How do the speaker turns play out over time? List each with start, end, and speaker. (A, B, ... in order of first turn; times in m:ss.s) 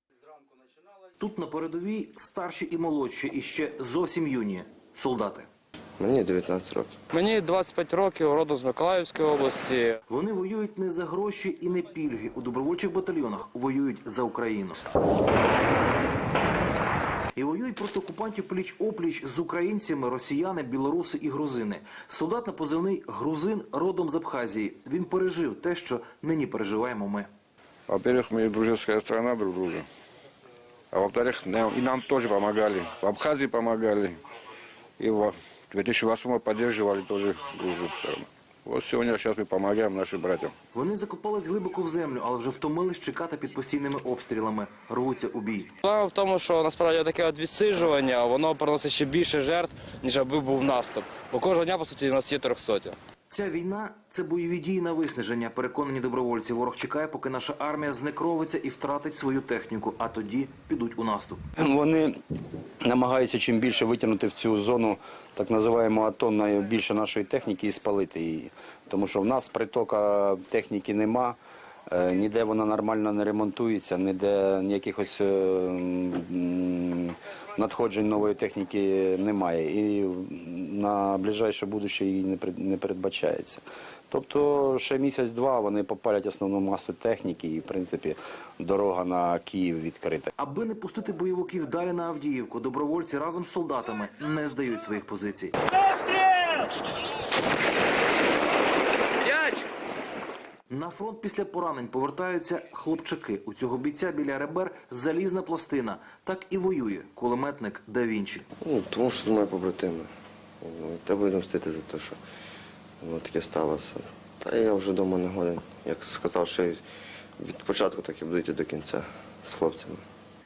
0:01.2-0:05.5 A
0:06.0-0:07.0 B
0:07.1-0:10.0 C
0:10.1-0:14.8 A
0:17.4-0:27.3 A
0:27.9-0:29.9 D
0:30.9-0:34.2 D
0:35.0-0:40.5 D
0:40.7-0:45.7 A
0:45.8-0:53.0 C
0:53.3-1:01.4 A
1:01.6-1:02.2 E
1:02.8-1:11.4 E
1:11.9-1:30.3 E
1:30.4-1:35.6 A
1:39.3-1:39.6 C
1:40.7-1:48.5 A
1:48.6-1:50.1 B
1:50.6-1:52.2 B
1:53.0-1:56.8 B
1:57.4-2:00.0 B